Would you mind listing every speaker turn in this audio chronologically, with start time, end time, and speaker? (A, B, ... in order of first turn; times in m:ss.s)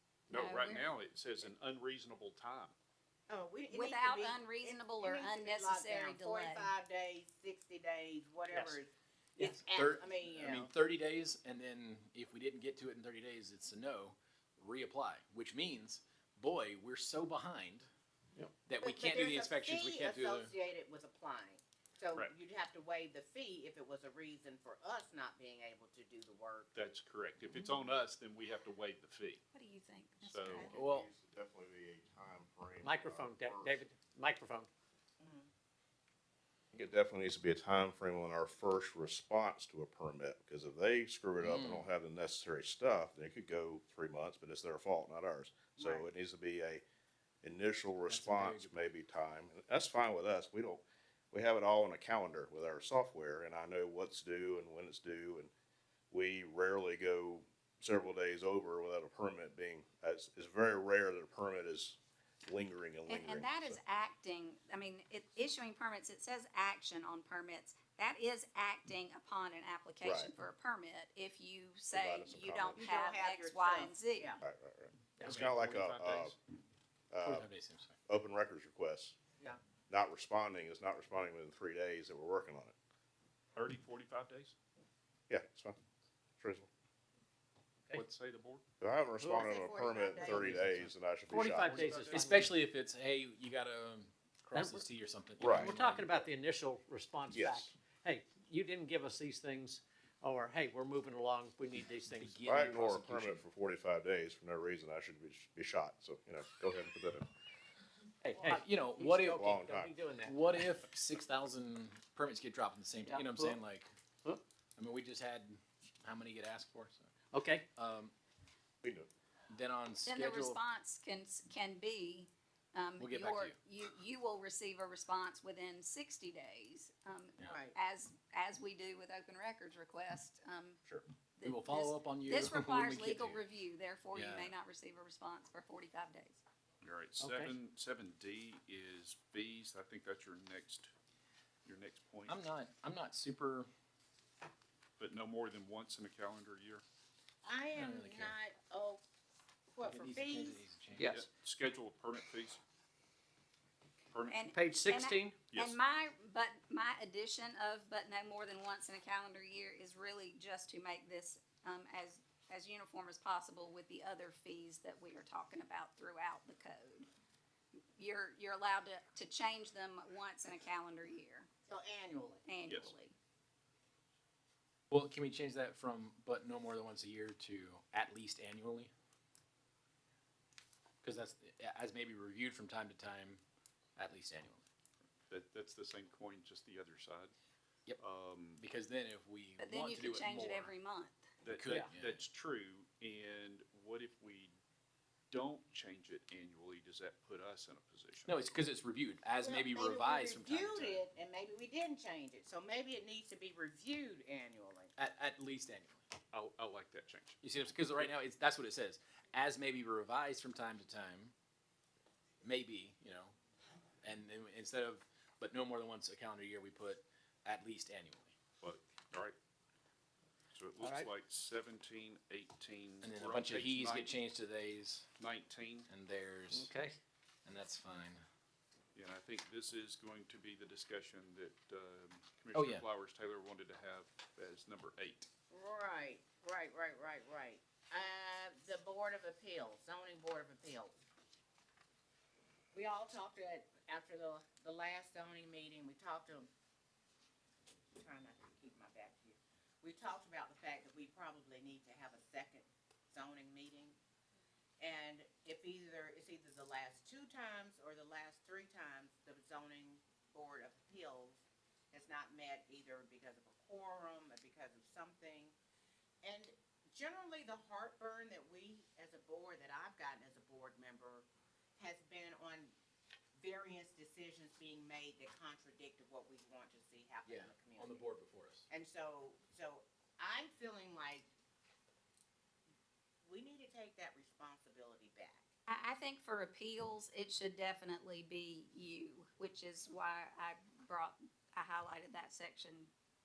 0:00.3-0:02.7 A
0:00.3-0:00.9 B
0:03.3-0:10.7 C
0:03.7-0:06.7 B
0:09.4-0:17.9 D
0:18.6-0:20.5 D
0:18.8-0:26.7 C
0:26.7-0:29.4 A
0:29.5-0:30.8 B
0:30.2-0:30.7 A
0:30.5-0:33.8 E
0:30.7-0:31.1 D
0:32.8-0:34.7 F
0:35.2-0:35.5 C
0:36.7-0:46.8 E
0:41.4-0:41.9 D
0:45.8-0:46.1 C
0:47.4-0:55.5 E
0:48.1-0:48.9 D
0:56.1-1:03.8 E
1:03.1-1:14.4 B
1:10.0-1:10.3 E
1:11.9-1:12.8 E
1:12.8-1:14.4 C
1:14.4-1:16.4 E
1:15.2-1:16.4 A
1:17.1-1:17.5 E
1:17.2-1:18.0 D
1:18.1-1:19.2 E
1:19.9-1:22.7 E
1:23.6-1:24.6 A
1:25.3-1:25.8 E
1:26.4-1:26.7 E
1:27.9-1:28.6 A
1:28.8-1:31.9 E
1:29.2-1:32.5 F
1:29.2-1:30.6 C
1:31.4-1:32.4 A
1:32.1-1:36.2 D
1:34.5-1:34.8 F
1:35.4-1:35.8 E
1:35.5-1:42.4 F
1:37.3-1:37.7 E
1:42.2-1:43.4 D
1:42.4-1:47.3 E
1:48.2-1:50.6 F
1:48.5-1:49.4 D
1:49.2-1:49.9 E
1:50.2-1:53.9 D
1:53.0-1:53.6 F
1:54.8-1:57.1 D
1:57.3-1:57.6 F
1:57.7-1:58.1 D
1:58.8-1:59.1 E
1:59.5-2:00.6 D
2:00.0-2:16.4 B
2:03.0-2:03.6 D
2:07.5-2:07.8 C
2:11.4-2:13.4 D
2:14.1-2:14.5 D
2:16.8-2:20.9 A
2:17.2-2:17.5 F
2:21.6-2:22.4 A
2:22.3-2:23.7 D
2:25.0-2:26.8 A
2:27.4-2:29.0 C
2:27.7-2:28.4 D
2:29.7-2:30.6 C
2:29.8-2:31.1 D
2:30.9-2:31.2 F
2:31.0-2:32.6 A
2:34.1-2:34.9 A
2:34.3-2:47.1 B
2:34.5-2:35.5 F
2:35.5-2:35.8 A
2:48.0-2:51.5 B
2:51.7-2:52.4 C
2:52.4-2:53.2 B
2:52.6-2:52.9 A
2:54.9-2:58.9 D
3:01.0-3:03.4 D
3:04.0-3:04.6 D
3:05.3-3:07.3 A
3:08.0-3:08.6 A
3:08.6-3:10.7 D
3:09.6-3:11.3 B
3:11.4-3:14.5 A
3:11.5-3:12.2 D
3:15.3-3:18.3 A
3:18.2-3:21.0 D
3:19.4-3:24.9 C
3:25.0-3:26.1 D
3:26.3-3:27.4 A
3:27.4-3:31.3 D
3:32.4-3:33.3 D
3:34.0-3:38.3 D
3:38.6-3:39.4 A
3:40.5-3:44.2 A
3:40.8-3:41.1 F
3:43.0-3:45.1 D
3:45.2-3:45.9 A
3:45.9-3:46.7 D
3:46.5-3:47.0 F
3:47.4-3:48.2 D
3:48.9-3:55.3 A
3:52.5-3:52.8 D
3:55.5-4:01.0 C
4:02.7-4:06.5 C
4:07.9-4:14.0 C
4:14.8-4:25.5 C
4:26.2-4:31.2 C
4:31.8-4:32.7 C
4:33.4-4:38.0 C
4:37.2-4:38.6 D
4:38.7-4:41.3 C
4:43.2-4:45.5 C
4:45.7-4:52.9 B